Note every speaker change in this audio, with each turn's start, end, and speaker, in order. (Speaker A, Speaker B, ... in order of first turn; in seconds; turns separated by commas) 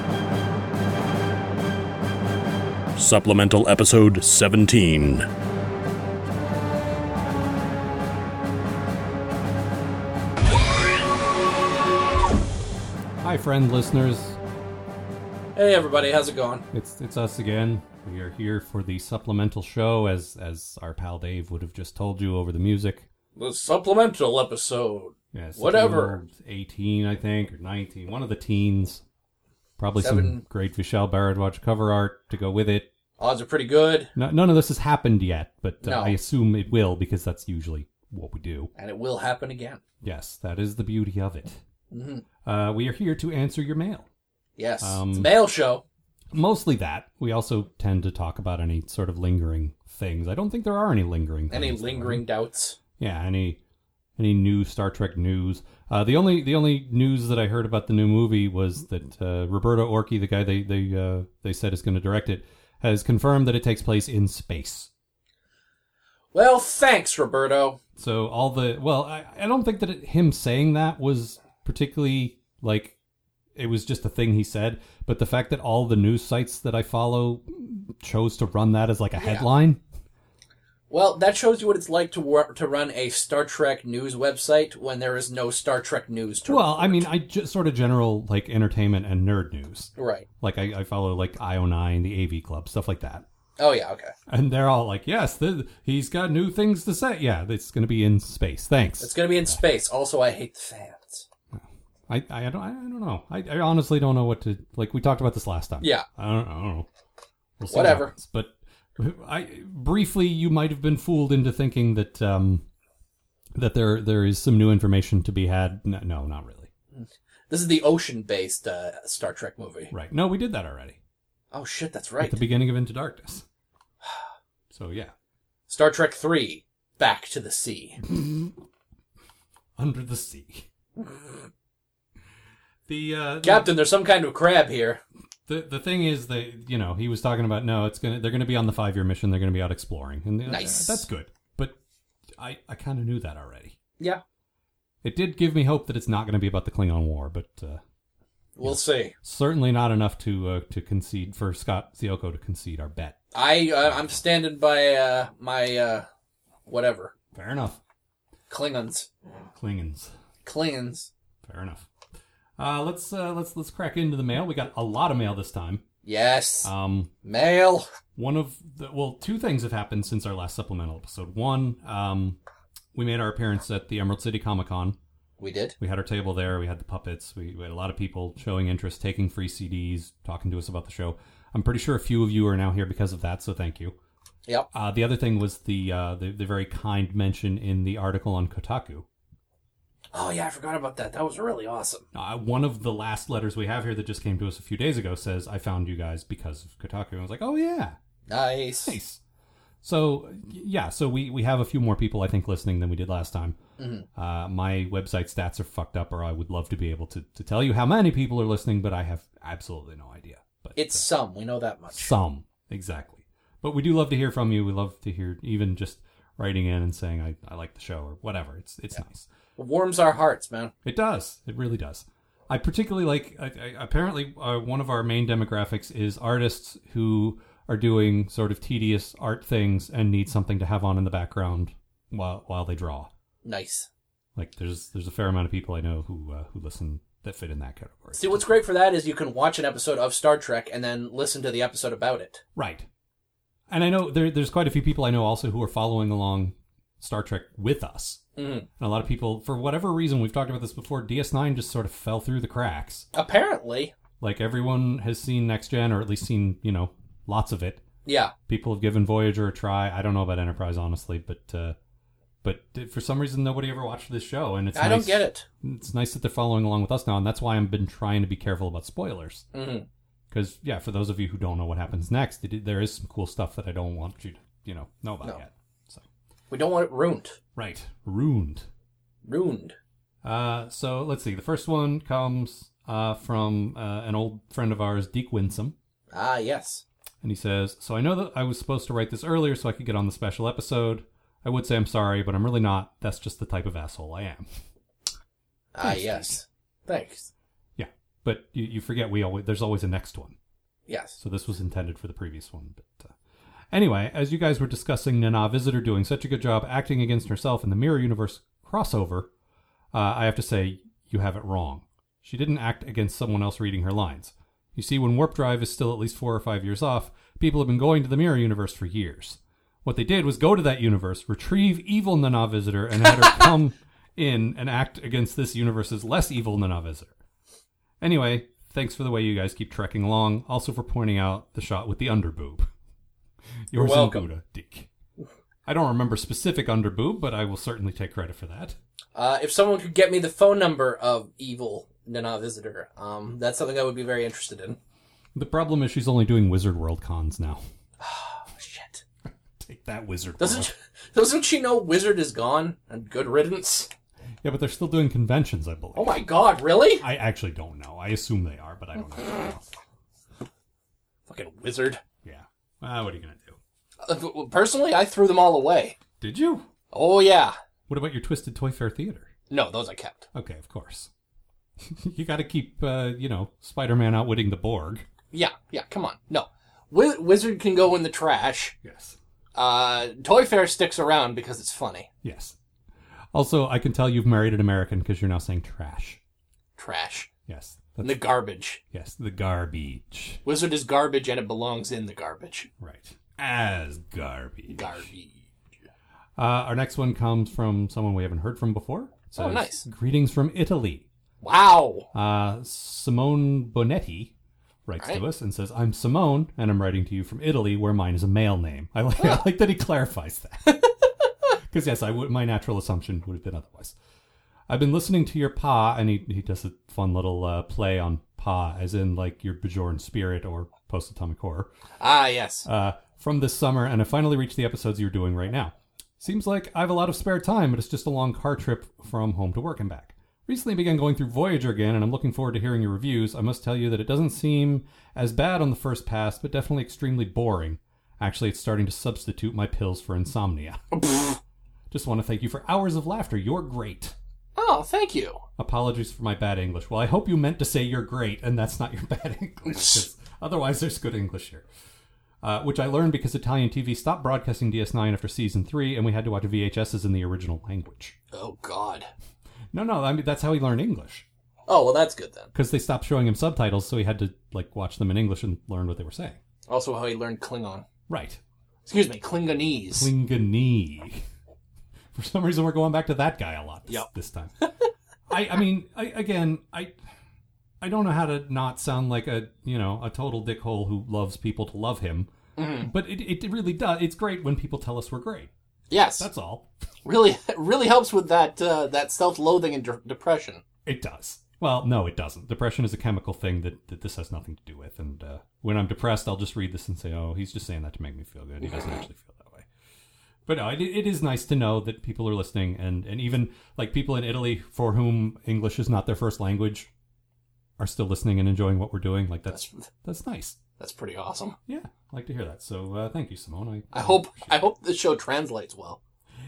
Speaker A: 3.0-5.3, Speaker B: 13.2-14.4, Speaker C: 15.6-16.6, Speaker B: 16.7-23.1, Speaker C: 23.4-26.2, Speaker B: 25.3-29.0, Speaker B: 29.8-32.9, Speaker C: 30.0-30.4, Speaker C: 33.2-34.1, Speaker B: 34.1-38.7, Speaker C: 35.8-36.2, Speaker C: 38.8-39.8, Speaker B: 40.0-41.6, Speaker C: 41.9-42.2, Speaker B: 42.4-44.1, Speaker C: 44.6-45.8, Speaker B: 44.8-45.3, Speaker B: 46.3-52.2, Speaker C: 51.5-52.8, Speaker B: 53.0-53.6, Speaker B: 54.2-64.9, Speaker C: 66.3-67.8, Speaker B: 68.0-73.0, Speaker B: 73.5-79.8, Speaker C: 79.2-79.5, Speaker C: 80.9-87.1, Speaker B: 86.4-93.2, Speaker C: 90.0-90.3, Speaker C: 93.6-94.1, Speaker B: 94.3-99.6, Speaker C: 99.0-101.2, Speaker B: 101.5-106.9, Speaker C: 105.8-106.0, Speaker B: 107.6-112.7, Speaker C: 107.7-108.1, Speaker B: 113.5-116.7, Speaker C: 116.9-119.9, Speaker B: 119.9-121.0, Speaker C: 121.5-122.4, Speaker B: 122.2-123.4, Speaker B: 124.7-125.1, Speaker C: 125.7-128.0, Speaker B: 129.8-130.7, Speaker B: 132.9-133.8, Speaker C: 133.4-135.0, Speaker B: 135.5-141.8, Speaker C: 140.5-141.0, Speaker B: 142.4-143.8, Speaker B: 145.0-147.8, Speaker C: 148.6-149.1, Speaker B: 148.6-153.2, Speaker C: 153.3-156.1, Speaker B: 153.9-154.2, Speaker C: 156.7-157.1, Speaker B: 157.3-157.8, Speaker C: 158.5-159.1, Speaker B: 159.5-160.1, Speaker C: 160.4-161.1, Speaker B: 161.4-161.9, Speaker B: 162.6-165.8, Speaker C: 166.0-166.7, Speaker B: 166.6-167.1, Speaker C: 167.2-167.9, Speaker B: 168.2-172.4, Speaker B: 172.9-175.0, Speaker C: 175.4-175.8, Speaker B: 175.8-184.0, Speaker B: 184.7-189.1, Speaker C: 190.1-192.1, Speaker B: 192.1-198.0, Speaker C: 198.3-199.0, Speaker B: 198.8-199.2, Speaker B: 199.8-203.6, Speaker C: 203.8-204.1, Speaker B: 204.2-211.1, Speaker C: 210.8-212.1, Speaker B: 211.9-219.3, Speaker C: 219.6-220.7, Speaker B: 220.8-233.1, Speaker C: 233.4-233.9, Speaker B: 234.3-238.5, Speaker C: 238.2-242.4, Speaker B: 242.5-242.9, Speaker B: 243.7-248.2, Speaker C: 248.4-248.7, Speaker B: 248.8-253.1, Speaker C: 253.1-253.9, Speaker B: 254.2-257.8, Speaker C: 258.1-258.3, Speaker B: 258.5-261.8, Speaker B: 262.4-269.5, Speaker C: 264.7-265.5, Speaker C: 269.5-269.9, Speaker B: 270.3-276.1, Speaker C: 276.5-277.4, Speaker B: 277.6-278.7, Speaker C: 279.2-279.8, Speaker B: 280.2-285.8, Speaker C: 286.1-286.8, Speaker B: 287.2-294.5, Speaker C: 295.7-297.3, Speaker B: 295.8-296.4, Speaker B: 297.8-300.4, Speaker C: 300.9-301.2, Speaker B: 301.2-303.1, Speaker B: 303.7-309.3, Speaker B: 309.9-327.1, Speaker B: 328.0-332.7, Speaker B: 333.7-334.9, Speaker C: 333.7-334.3, Speaker B: 335.6-338.8, Speaker C: 339.1-344.8, Speaker B: 345.4-347.6, Speaker C: 348.0-349.0, Speaker B: 349.6-350.7, Speaker C: 350.4-353.9, Speaker B: 354.4-356.3, Speaker C: 355.9-357.1, Speaker B: 357.0-359.7, Speaker C: 361.3-362.0, Speaker B: 362.2-363.6, Speaker C: 364.0-366.0, Speaker B: 366.2-366.7, Speaker C: 366.9-367.6, Speaker B: 367.9-369.3, Speaker C: 369.5-370.3, Speaker B: 370.3-371.1, Speaker B: 371.8-375.1, Speaker C: 375.3-378.8, Speaker B: 378.8-379.2, Speaker C: 379.6-382.1, Speaker B: 382.2-382.6, Speaker B: 383.3-386.2, Speaker C: 386.8-387.3, Speaker B: 387.5-388.2, Speaker C: 388.0-388.8, Speaker B: 388.9-390.4, Speaker C: 390.4-392.7, Speaker B: 392.8-395.1, Speaker C: 394.7-395.4, Speaker B: 396.4-401.1, Speaker C: 399.4-399.9, Speaker C: 401.4-402.1, Speaker B: 402.1-404.3, Speaker B: 404.9-410.8, Speaker B: 411.7-413.9, Speaker B: 414.7-421.7, Speaker C: 422.0-422.7, Speaker B: 422.7-440.9, Speaker C: 440.9-441.4, Speaker B: 441.9-444.1, Speaker C: 444.6-445.4, Speaker B: 445.6-451.7, Speaker C: 449.7-450.0, Speaker B: 452.4-458.2, Speaker C: 458.3-459.1, Speaker B: 459.7-461.3, Speaker C: 461.7-462.5, Speaker B: 462.5-466.4, Speaker C: 466.7-467.9, Speaker B: 468.1-468.4, Speaker C: 468.9-470.1, Speaker B: 469.9-471.2, Speaker B: 472.1-474.6, Speaker B: 475.3-477.0, Speaker B: 477.8-485.5, Speaker C: 482.6-482.9, Speaker C: 485.9-486.3, Speaker B: 486.2-486.7, Speaker C: 487.1-490.6, Speaker B: 490.9-499.7, Speaker B: 500.5-506.9, Speaker B: 507.8-510.6, Speaker C: 509.5-509.9, Speaker C: 510.8-511.6, Speaker B: 511.6-514.6, Speaker C: 513.9-516.0